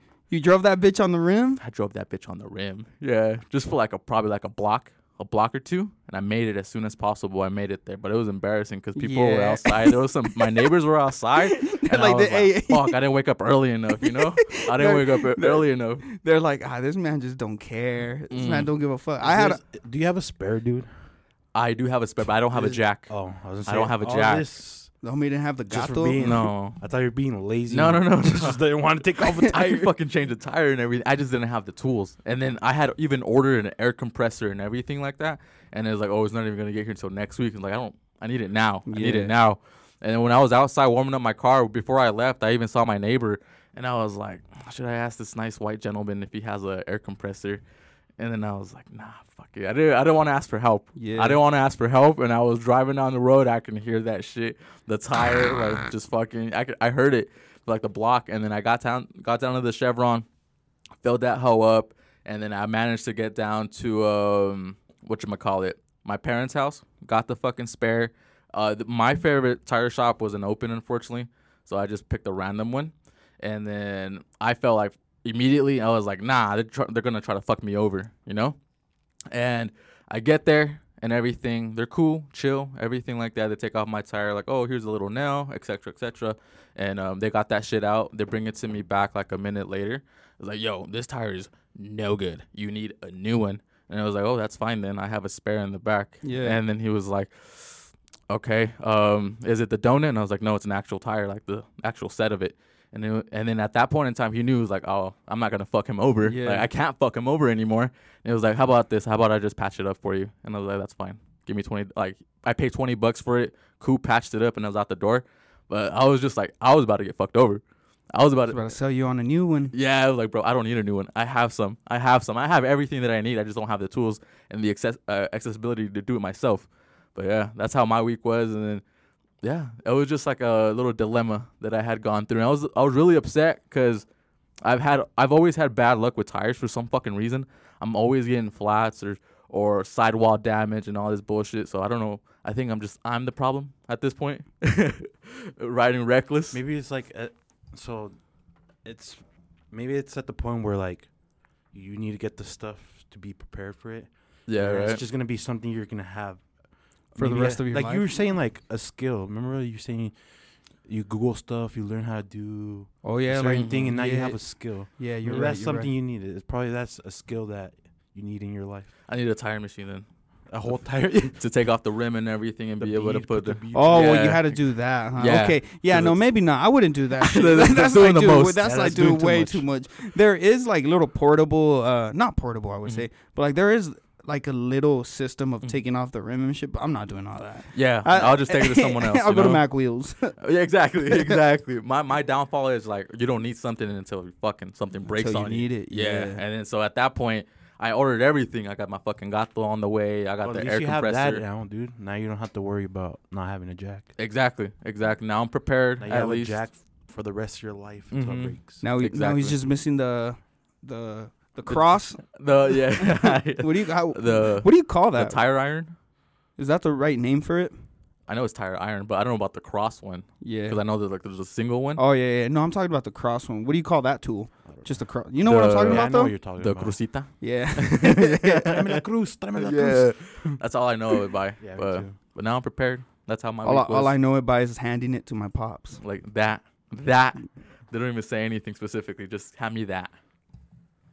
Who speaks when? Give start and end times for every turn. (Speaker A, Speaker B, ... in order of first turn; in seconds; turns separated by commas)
Speaker A: 0.3-1.6, Speaker B: 1.6-16.0, Speaker A: 8.9-10.4, Speaker A: 11.4-12.9, Speaker A: 14.0-19.6, Speaker B: 18.3-18.7, Speaker C: 19.2-20.9, Speaker B: 21.5-23.1, Speaker C: 22.6-24.9, Speaker B: 23.6-24.5, Speaker A: 25.0-26.3, Speaker C: 25.7-29.9, Speaker B: 26.2-26.8, Speaker B: 27.7-28.6, Speaker B: 29.4-47.6, Speaker A: 38.9-39.3, Speaker B: 48.2-60.2, Speaker A: 51.0-51.4, Speaker B: 61.0-78.6, Speaker B: 79.3-117.6, Speaker A: 96.2-96.6, Speaker A: 106.2-106.7, Speaker B: 118.1-118.7, Speaker A: 118.5-119.7, Speaker B: 119.7-128.8, Speaker B: 129.4-134.0, Speaker B: 134.6-146.6, Speaker C: 146.5-148.2, Speaker C: 148.8-151.1, Speaker C: 151.7-156.4, Speaker B: 154.5-155.0, Speaker C: 157.1-160.2, Speaker A: 157.1-158.1, Speaker C: 160.8-168.9, Speaker A: 163.0-165.9, Speaker B: 163.5-163.8, Speaker B: 169.1-170.1, Speaker C: 170.5-171.4, Speaker B: 171.3-174.6, Speaker C: 172.8-174.4, Speaker A: 173.7-190.3, Speaker B: 175.2-176.1, Speaker B: 177.2-178.6, Speaker C: 178.6-179.7, Speaker B: 187.7-189.6, Speaker B: 190.4-201.4, Speaker A: 191.1-191.4, Speaker A: 195.1-196.4, Speaker C: 200.4-204.1, Speaker B: 204.2-206.6, Speaker C: 206.0-208.8, Speaker B: 208.1-209.6, Speaker A: 208.8-212.2, Speaker B: 211.7-215.9, Speaker A: 212.9-215.4, Speaker A: 216.6-217.7, Speaker B: 218.3-222.0, Speaker A: 220.4-220.8, Speaker A: 222.0-226.3, Speaker C: 224.7-227.0, Speaker B: 225.4-229.0, Speaker A: 227.4-228.8, Speaker C: 228.6-230.3, Speaker B: 229.6-234.1, Speaker C: 231.6-232.1, Speaker A: 233.6-236.0, Speaker B: 236.0-240.1